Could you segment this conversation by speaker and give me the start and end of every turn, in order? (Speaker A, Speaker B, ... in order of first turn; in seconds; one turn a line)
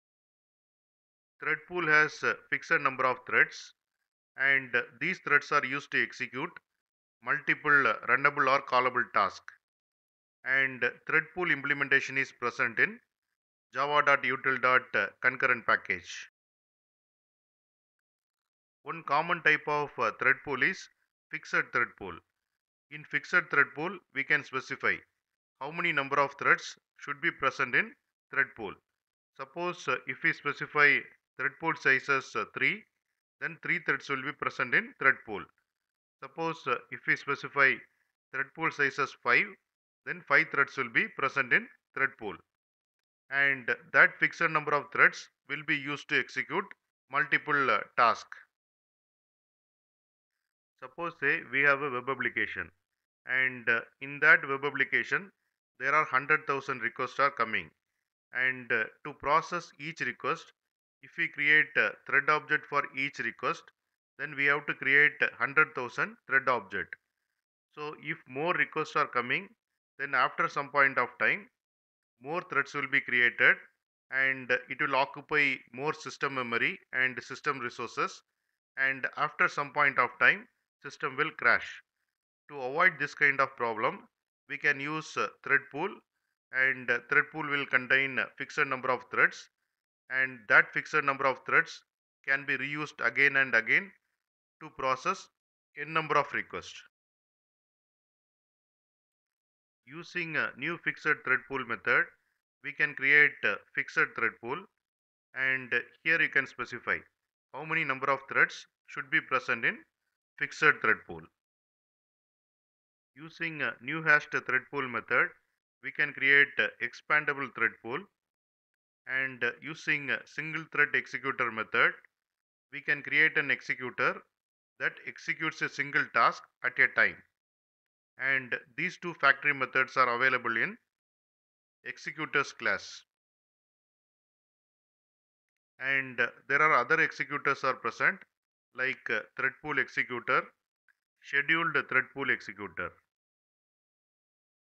Speaker A: 1.4-3.7
Speaker A: 4.4-6.6
Speaker A: 7.2-9.5
Speaker A: 10.4-13.0
Speaker A: 13.7-16.3
Speaker A: 18.8-22.2
Speaker A: 22.9-25.0
Speaker A: 25.6-28.8
Speaker A: 29.4-32.8
Speaker A: 33.4-35.5
Speaker A: 36.2-37.8
Speaker A: 38.3-39.5
Speaker A: 40.0-42.4
Speaker A: 43.3-48.4
Speaker A: 50.8-52.7
Speaker A: 53.3-57.7
Speaker A: 58.3-67.0
Speaker A: 67.7-71.5
Speaker A: 72.2-78.2
Speaker A: 78.8-81.8
Speaker A: 82.5-86.0
Speaker A: 86.5-89.5
Speaker A: 90.1-93.9
Speaker A: 94.6-96.9
Speaker A: 99.8-104.7
Speaker A: 105.3-109.8
Speaker A: 110.4-111.3
Speaker A: 113.2-118.0
Speaker A: 119.1-122.0
Speaker A: 122.7-124.2
Speaker A: 124.8-127.2
Speaker A: 128.2-130.8
Speaker A: 131.8-133.1
Speaker A: 135.8-138.2
Speaker A: 138.7-140.5
Speaker A: 141.2-142.9